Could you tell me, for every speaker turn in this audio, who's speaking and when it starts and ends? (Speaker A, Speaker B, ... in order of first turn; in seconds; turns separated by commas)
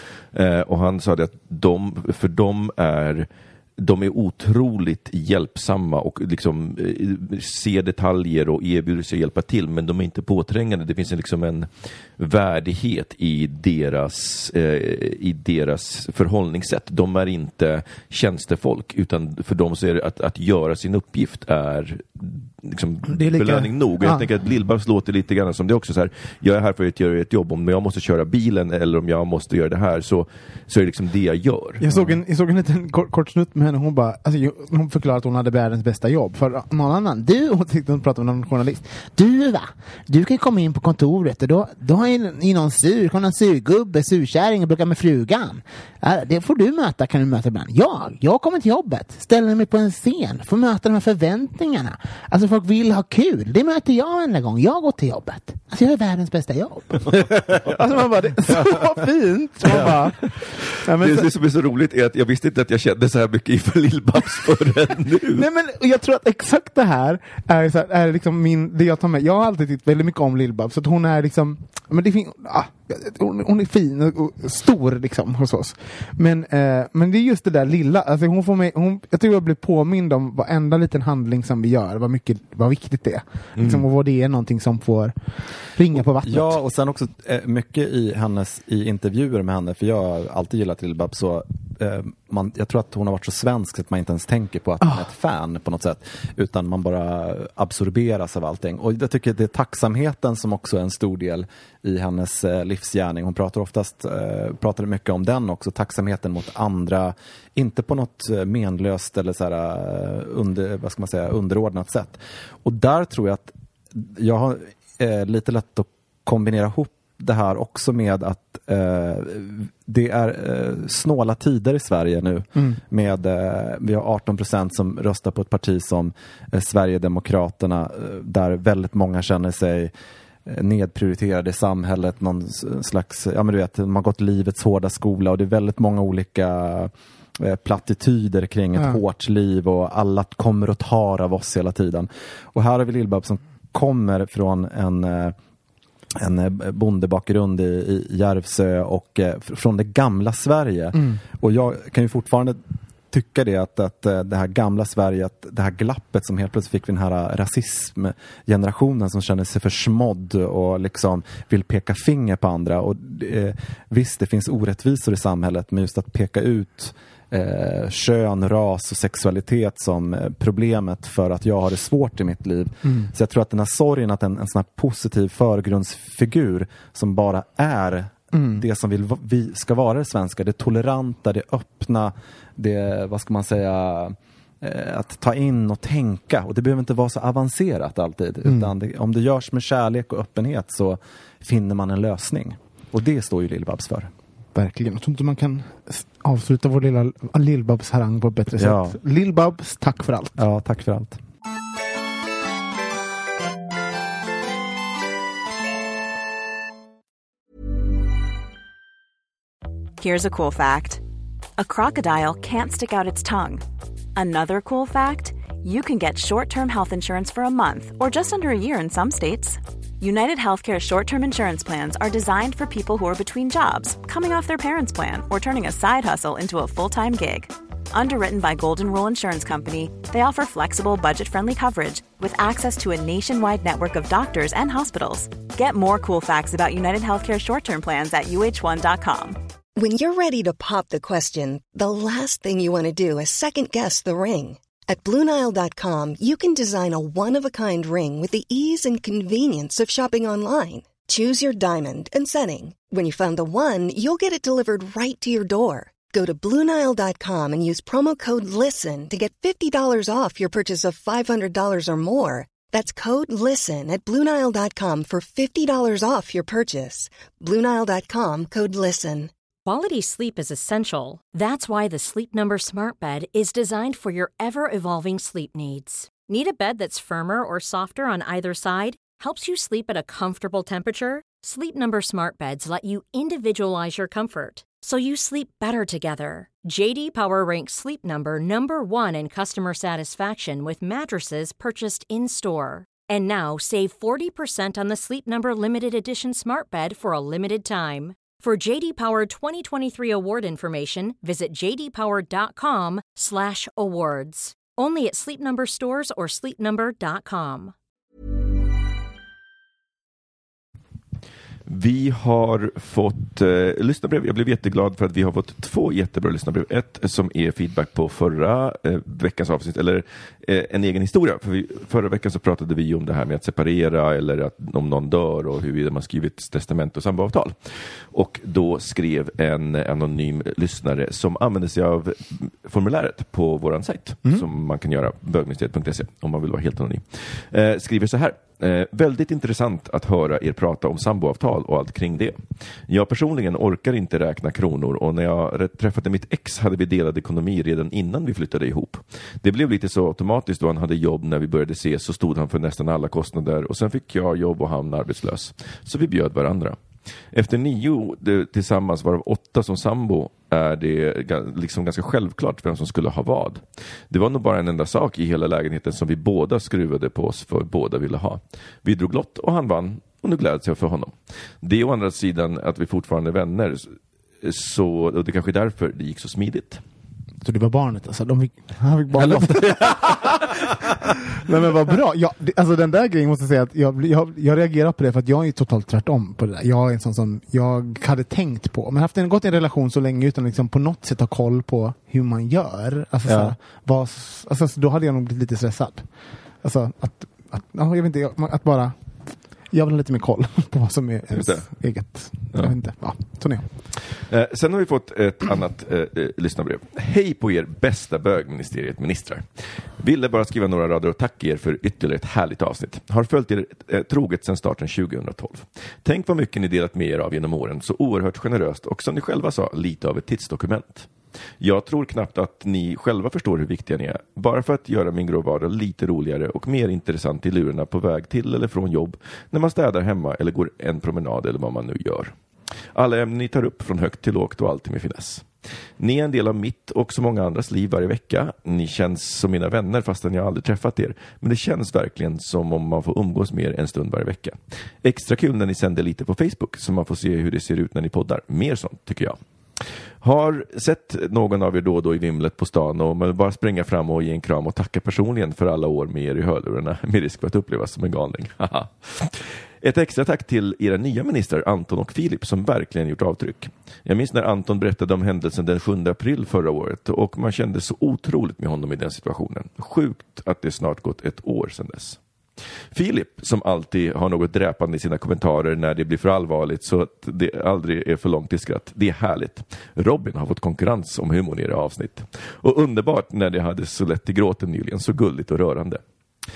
Speaker A: 0.3-31.9, Speaker B: 23.1-24.2, Speaker B: 31.8-61.3, Speaker A: 59.7-65.5, Speaker B: 65.3-86.6, Speaker A: 83.6-83.8, Speaker C: 85.9-129.9, Speaker C: 130.4-145.3, Speaker C: 146.1-152.6, Speaker C: 153.1-194.1, Speaker B: 178.3-178.6, Speaker B: 194.5-200.4, Speaker C: 198.6-199.0, Speaker C: 200.4-201.2, Speaker D: 210.0-211.0, Speaker D: 211.6-213.6, Speaker D: 214.2-239.4, Speaker E: 239.8-269.3, Speaker F: 269.6-307.7, Speaker A: 311.7-356.8, Speaker A: 357.3-376.8, Speaker B: 377.4-380.7, Speaker C: 379.2-380.1, Speaker B: 381.3-396.1, Speaker C: 393.2-393.5, Speaker B: 396.6-398.9, Speaker B: 399.7-403.7, Speaker A: 401.3-401.6, Speaker A: 404.2-421.1, Speaker A: 421.6-432.3, Speaker A: 432.9-435.5, Speaker A: 436.0-449.4, Speaker A: 450.2-472.2, Speaker A: 472.9-486.0